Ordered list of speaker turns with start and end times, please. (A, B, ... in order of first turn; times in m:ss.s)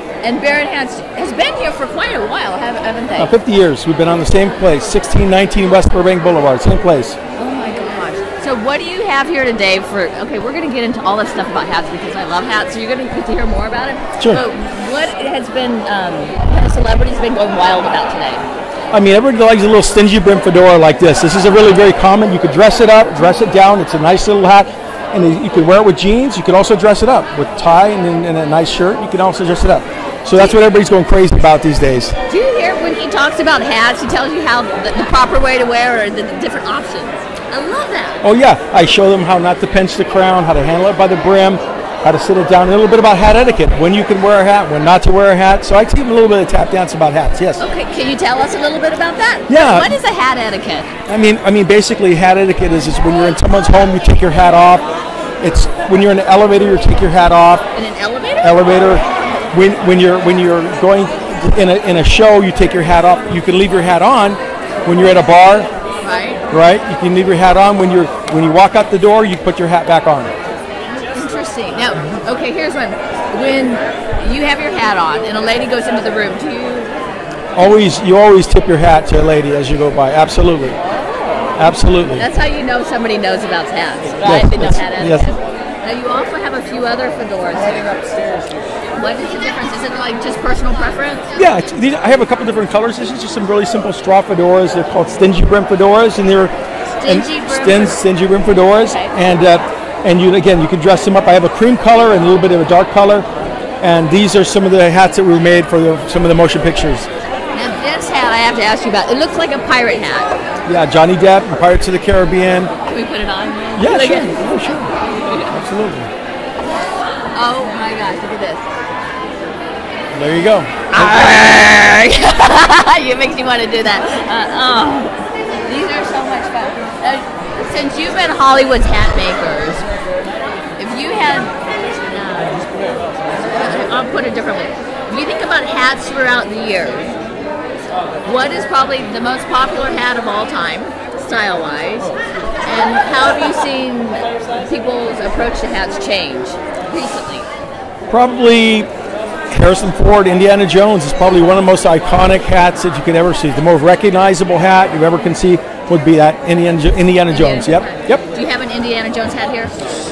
0:00.2-0:03.3 A
0:03.2-0:07.2 B
0:07.4-0:18.4 A
0:18.9-0:32.1 B
0:32.3-0:38.2 A
0:38.2-0:47.6 B
0:47.6-0:50.9 A
0:49.5-0:49.9 B
0:51.1-0:54.8 B
0:55.4-0:57.6 B
0:57.7-0:58.6 A
0:58.4-1:05.7 B
1:06.0-1:06.4 A
1:06.5-1:10.3 B
1:11.0-1:16.9 A
1:17.6-1:20.8 B
1:21.6-1:22.3 B
1:22.1-1:28.0 A
1:24.2-1:25.3 B
1:28.9-1:31.3 A
1:31.4-1:36.5 B
1:37.0-1:38.0 A
1:37.0-1:43.2 B
1:38.8-1:39.1 A
1:43.8-1:47.1 B
1:47.5-1:50.3 A
1:50.6-1:52.7 B
1:52.8-1:55.5 A
1:53.8-1:56.1 B
1:57.3-1:58.7 A
2:00.1-2:01.4 B
2:00.9-2:09.9 A
2:10.8-2:12.7 A
2:13.3-2:17.1 A
2:18.2-2:22.1 A
2:22.6-2:27.5 A
2:28.1-2:28.9 B
2:29.5-2:38.2 B
2:37.3-2:39.9 A